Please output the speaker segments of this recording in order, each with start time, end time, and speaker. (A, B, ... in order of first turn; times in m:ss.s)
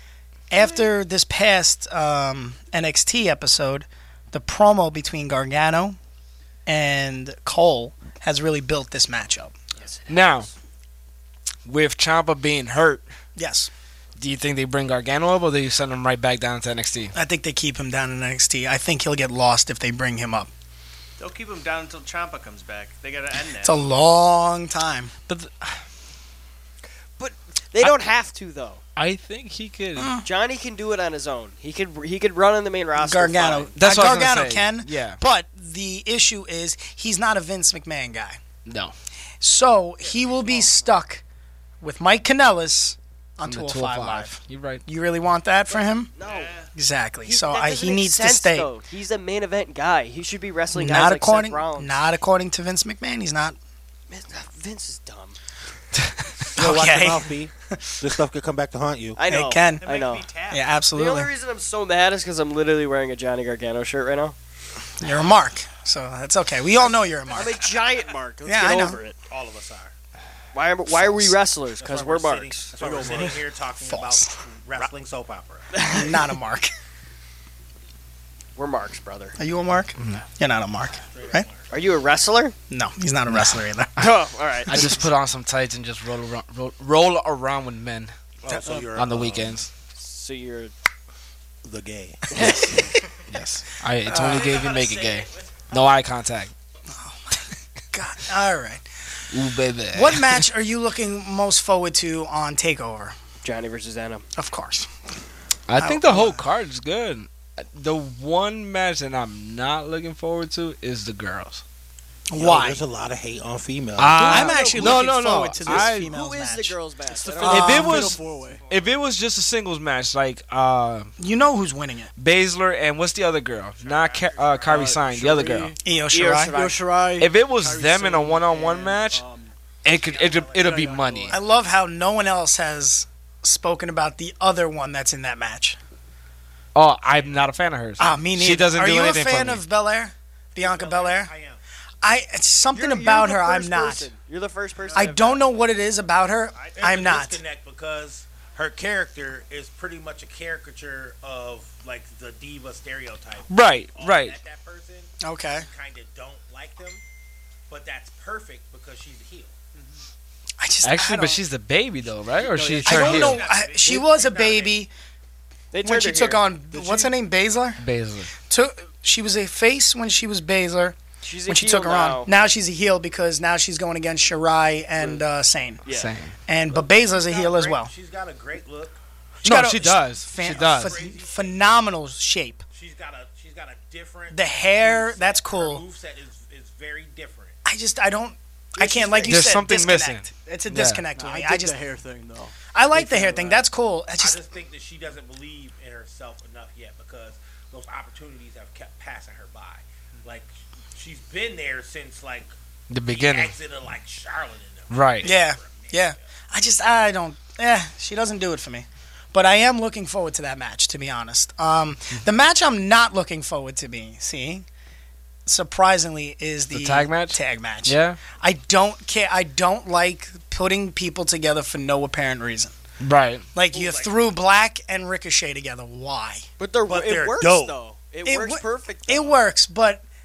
0:00.5-0:06.0 A
0:06.6-0:09.5 A
0:09.8-0:10.4 B
0:10.1-0:10.5 C
0:11.6-0:13.0 C
0:13.4-0:13.7 A
0:14.2-0:17.1 C
0:17.1-0:20.5 A
0:21.2-0:23.8 D
0:23.6-0:25.1 A
0:25.3-0:25.8 C
0:27.2-0:28.8 B
0:29.0-0:30.2 C
0:30.0-0:30.2 A
0:30.2-0:33.7 B
0:33.0-0:38.4 A
0:33.8-0:35.2 C
0:38.6-0:38.9 C
0:39.4-0:41.2 A
0:40.0-0:40.8 B
0:41.8-0:44.3 A
0:43.4-0:44.8 C
0:44.9-0:46.1 A
0:46.2-0:46.5 B
0:46.2-0:46.7 D
0:46.7-0:48.7 A
0:47.2-0:52.0 B
0:50.7-0:53.6 A
0:54.1-0:55.4 B
0:56.5-0:59.2 E
0:56.6-0:57.9 A
0:59.2-1:00.3 B
0:59.3-0:59.9 A
0:59.8-1:00.6 D
1:00.5-1:01.3 A
1:00.9-1:04.3 B
1:05.0-1:07.7 A
1:07.3-1:09.2 B
1:08.4-1:09.0 A
1:09.3-1:09.9 E
1:10.5-1:13.2 B
1:10.9-1:11.4 A
1:11.8-1:15.7 E
1:12.8-1:13.4 F
1:13.8-1:14.4 A
1:15.7-1:16.2 B
1:15.9-1:16.7 A
1:18.6-1:19.4 B
1:19.4-1:21.5 A
1:21.1-1:21.8 E
1:21.7-1:22.6 B
1:22.7-1:23.9 A
1:24.0-1:24.9 B
1:24.7-1:28.1 C
1:28.4-1:29.6 E
1:28.6-1:29.0 F
1:28.9-1:29.7 C
1:29.9-1:30.7 B
1:31.6-1:32.9 E
1:32.3-1:32.8 B
1:33.3-1:36.5 C
1:34.0-1:34.6 A
1:36.9-1:38.8 A
1:39.3-1:40.4 C
1:39.9-1:43.2 A
1:43.4-1:44.2 B
1:44.4-1:44.9 A
1:45.7-1:51.6 C
1:45.8-1:46.4 A
1:52.3-1:52.8 A
1:52.3-1:54.4 E
1:54.0-1:56.1 C
1:54.2-1:56.8 A
1:55.6-1:57.8 B
1:57.1-1:58.7 F
1:57.4-2:01.1 C
1:57.5-1:58.2 A
2:01.2-2:02.1 A
2:02.2-2:05.7 C
2:03.8-2:04.8 D
2:04.6-2:05.8 F
2:05.8-2:06.6 A
2:06.1-2:06.8 B
2:06.4-2:09.5 F
2:07.2-2:09.2 C
2:09.8-2:11.4 C
2:10.1-2:10.9 E
2:10.5-2:11.4 F
2:11.3-2:15.8 A
2:16.7-2:19.6 C
2:17.0-2:17.4 E
2:18.0-2:21.3 A
2:20.6-2:21.6 E
2:22.0-2:24.1 A
2:22.7-2:25.4 B
2:24.9-2:27.4 A
2:26.7-2:37.0 E
2:33.5-2:34.4 C
2:35.2-2:35.7 A
2:37.7-2:39.5 E
2:40.6-2:41.4 A
2:40.8-2:43.5 C
2:42.3-2:43.4 F
2:42.8-2:44.9 A
2:43.0-2:44.8 E
2:43.4-2:44.1 D
2:45.7-2:46.5 B
2:45.8-2:47.8 A
2:46.7-2:47.2 F
2:47.8-2:48.3 C
2:48.4-2:55.8 A
2:51.2-2:52.3 B
2:55.8-2:56.1 B
2:55.9-2:56.4 C
2:56.5-2:57.9 A
2:56.7-2:59.0 E
2:59.4-3:01.0 C
2:59.4-3:02.6 A
3:00.4-3:01.6 E
3:02.7-3:07.6 E
3:04.3-3:05.8 A
3:07.6-3:11.8 A
3:09.3-3:11.0 C
3:11.1-3:13.6 F
3:12.7-3:14.4 A
3:14.2-3:22.5 E
3:22.9-3:23.5 C
3:23.1-3:26.2 E
3:24.9-3:25.3 C
3:25.2-3:34.6 A
3:35.4-3:42.7 A
3:36.7-3:38.2 C
3:43.0-3:43.5 C
3:43.5-3:46.4 A
3:43.7-3:44.2 E
3:46.6-3:49.4 B
3:46.8-3:47.8 E
3:48.2-3:50.0 A